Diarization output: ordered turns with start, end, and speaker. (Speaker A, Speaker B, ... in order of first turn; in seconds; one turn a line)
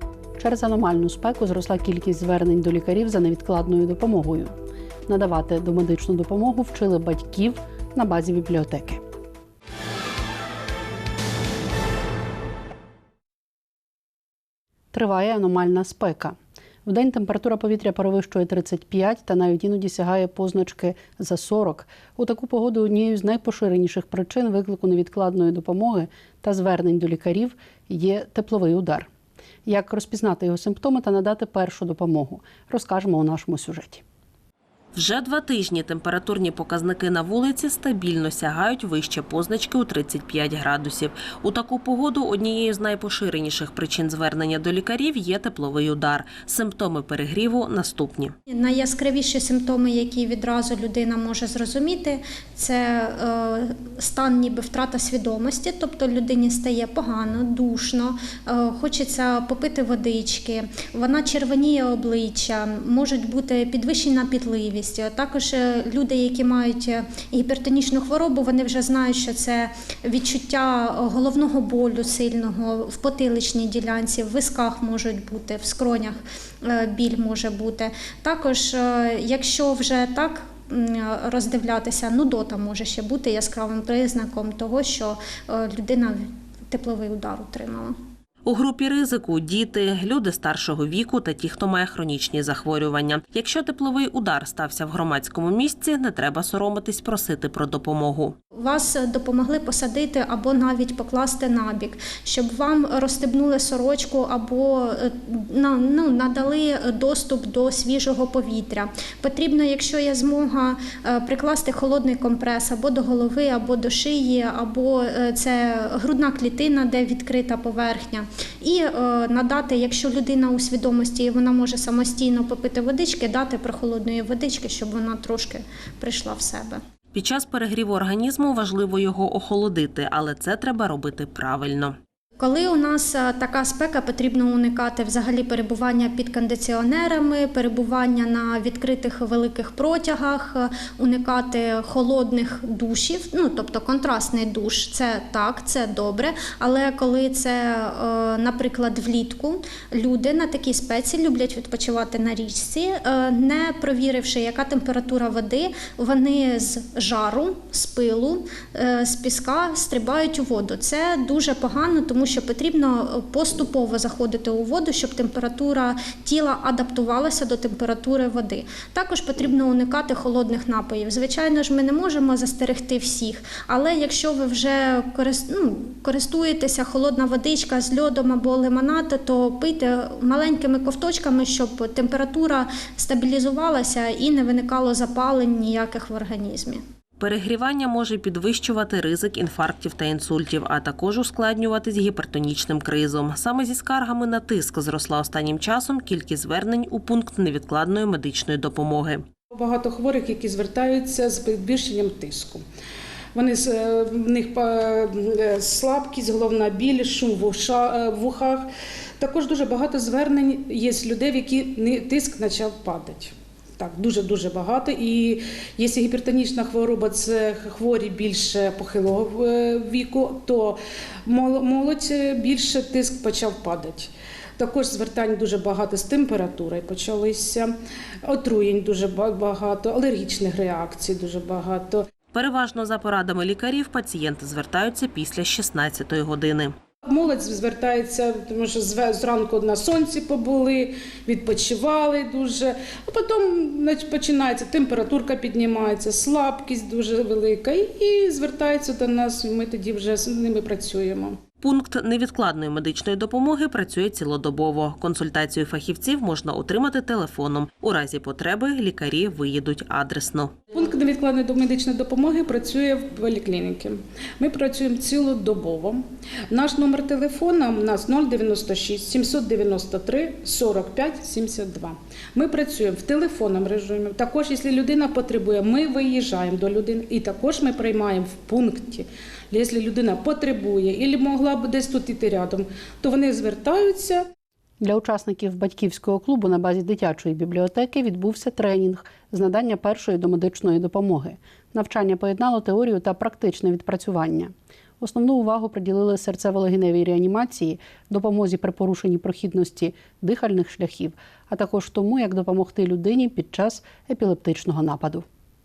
Speaker A: 0.4-4.5
Speaker A: 5.1-9.0
Speaker A: 14.9-29.1
Speaker A: 29.6-34.0
Speaker B: 34.9-48.3
Speaker C: 48.5-88.0
Speaker B: 88.4-98.3
Speaker C: 98.5-126.8
Speaker B: 127.1-132.0
Speaker C: 132.4-186.8
Speaker B: 187.2-199.2
Speaker D: 199.5-202.6
Speaker D: 203.3-208.7
Speaker D: 209.2-227.7
Speaker D: 228.2-232.1
Speaker B: 232.3-236.7
Speaker D: 237.0-251.4
Speaker B: 251.6-260.5
Speaker D: 260.7-284.3
Speaker A: 284.8-305.2